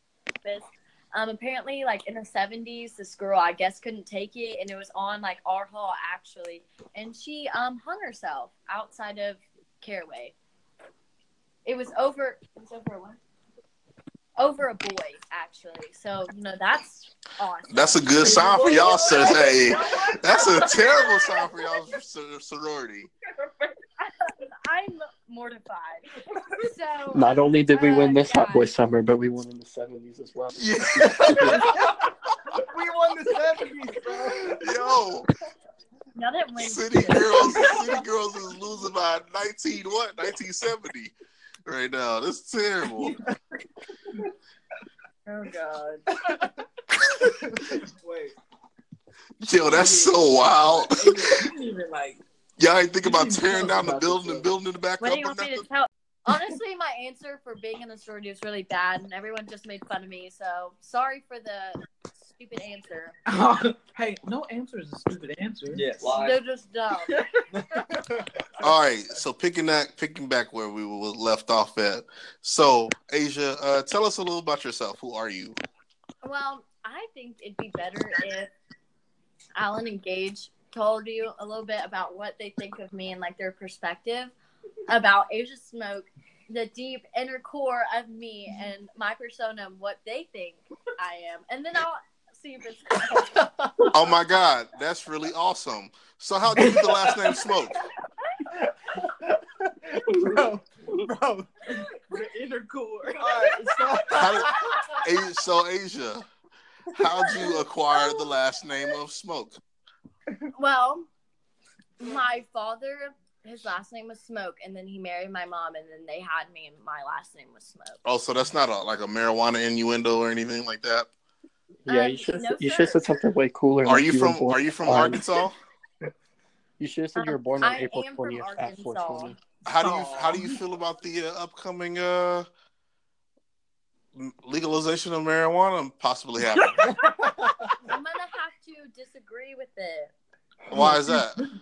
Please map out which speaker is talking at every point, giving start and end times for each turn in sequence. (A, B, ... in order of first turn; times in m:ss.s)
0:00.4-0:10.3 A
0:11.6-0:13.2 A
0:14.4-0:21.5 A
0:17.7-0:23.1 B
0:18.3-0:20.6 C
0:24.0-0:28.7 A
0:27.1-0:31.8 D
0:30.5-0:31.7 B
0:32.5-0:34.6 E
0:34.5-0:35.3 B
0:36.1-0:38.0 A
0:36.6-0:41.1 B
0:41.6-0:43.2 B
0:45.2-0:46.0 A
0:47.2-0:48.3 E
0:49.4-0:51.5 B
0:49.6-0:52.2 C
0:52.6-0:55.6 B
0:53.0-0:54.5 C
0:55.0-1:03.2 A
1:03.3-1:06.1 C
1:05.7-1:06.4 E
1:06.2-1:07.2 A
1:07.0-1:07.4 C
1:07.5-1:08.3 E
1:08.6-1:15.6 B
1:16.2-1:18.5 A
1:19.5-1:24.3 A
1:24.9-1:33.9 A
1:33.9-1:37.8 B
1:36.7-1:37.3 C
1:39.0-1:41.5 E
1:41.7-1:44.8 C
1:43.2-1:44.8 E
1:44.1-1:46.2 B
1:44.7-1:44.9 A
1:46.9-1:49.6 B
1:47.4-1:48.3 A
1:50.5-1:51.1 A
1:52.0-1:58.0 A
1:58.0-2:01.1 B
2:01.8-2:05.3 D
2:01.9-2:03.1 A
2:03.8-2:05.6 B
2:06.8-2:09.4 D
2:07.2-2:09.3 A
2:09.6-2:12.5 B
2:09.7-2:10.5 C
2:14.1-2:16.9 B
2:16.8-2:17.7 E
2:17.8-2:20.1 A
2:20.7-2:21.4 B